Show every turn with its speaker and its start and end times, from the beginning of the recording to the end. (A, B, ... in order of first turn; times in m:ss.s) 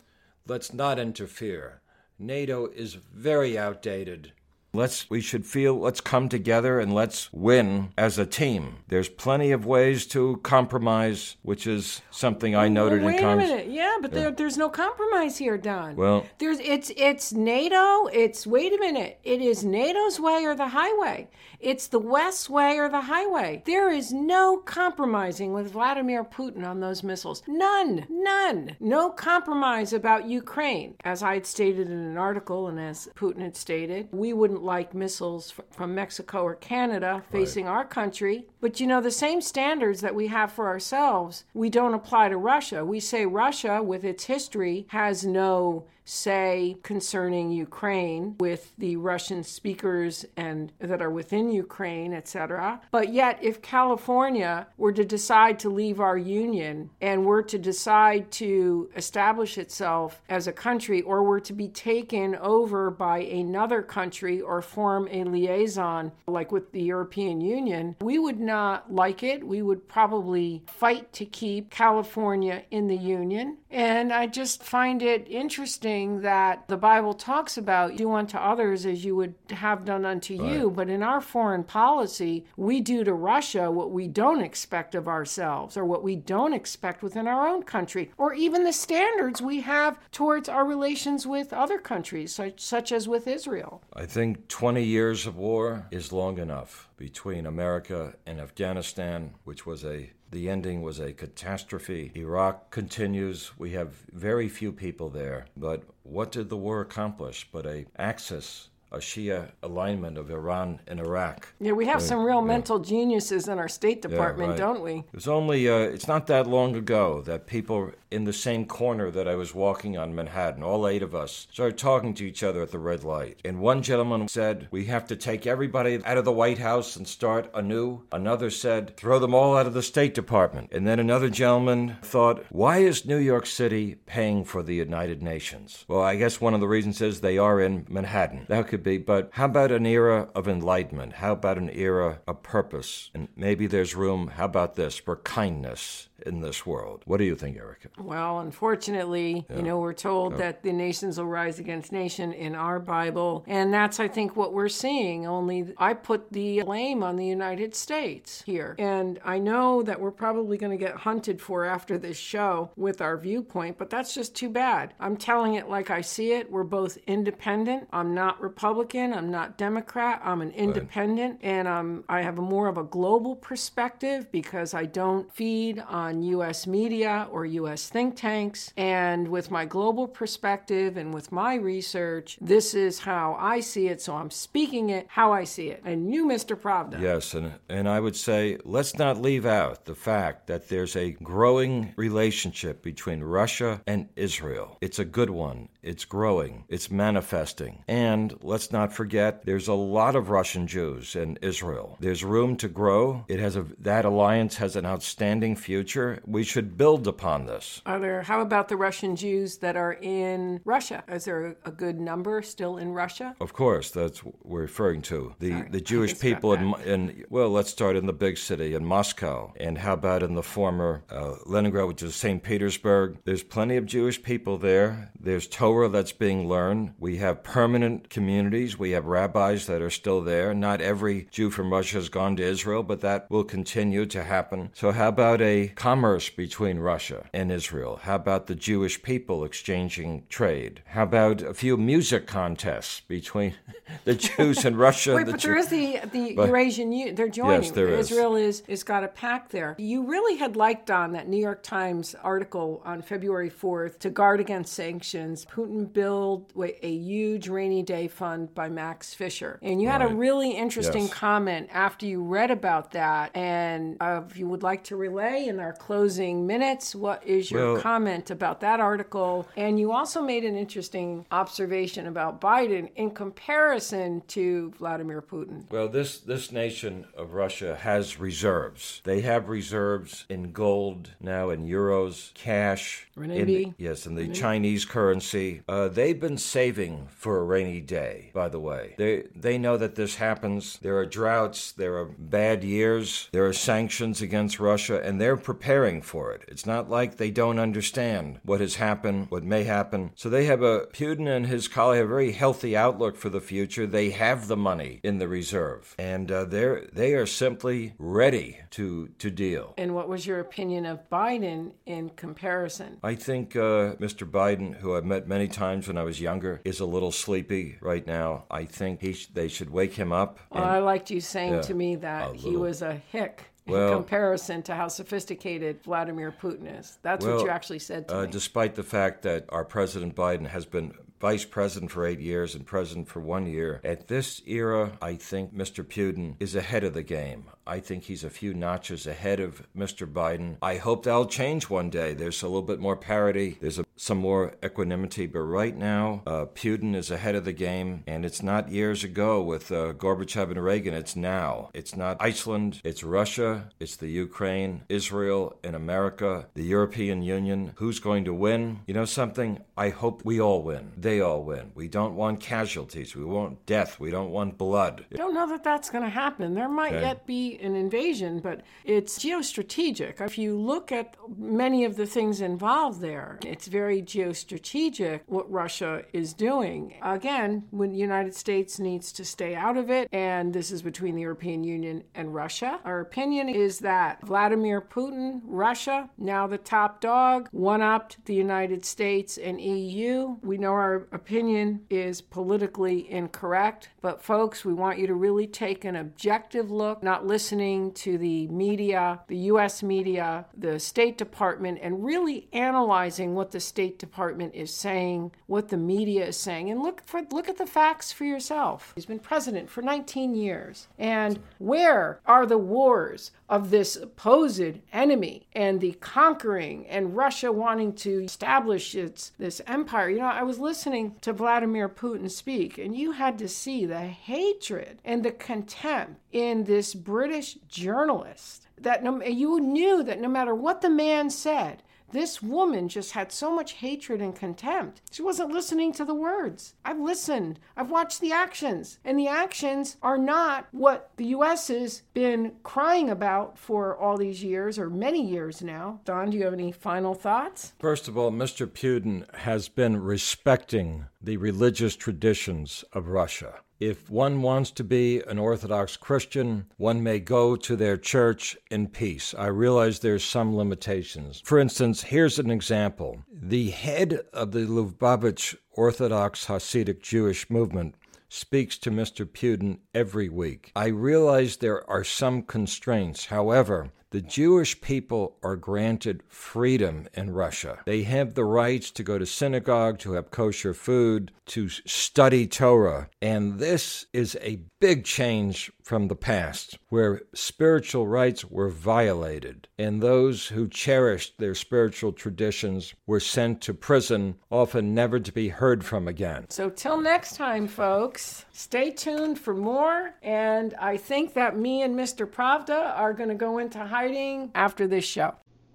0:00.4-0:13.5 A
0:12.6-1:33.8 B
0:16.0-0:16.3 A
1:33.9-1:52.6 A
1:51.6-1:55.0 B
1:54.1-2:27.9 A
2:28.0-3:07.1 B
3:06.9-3:27.8 A
3:27.8-3:33.4 B
3:33.4-4:05.8 A
3:35.5-3:36.7 B
4:05.1-4:35.7 B
4:07.4-4:08.2 A
4:19.8-4:20.2 A
4:20.8-4:21.1 A
4:27.5-4:27.9 A
4:35.7-5:09.7 A
4:43.2-4:44.4 B
5:09.8-5:13.0 B
5:13.0-5:20.8 A
5:20.5-5:28.4 B
5:21.4-5:22.7 A
5:23.7-5:24.0 A
5:27.2-5:27.5 A
5:28.1-6:05.1 A
6:05.1-7:27.7 B
6:06.9-6:07.1 A
7:27.8-8:16.5 A
8:16.5-8:25.4 B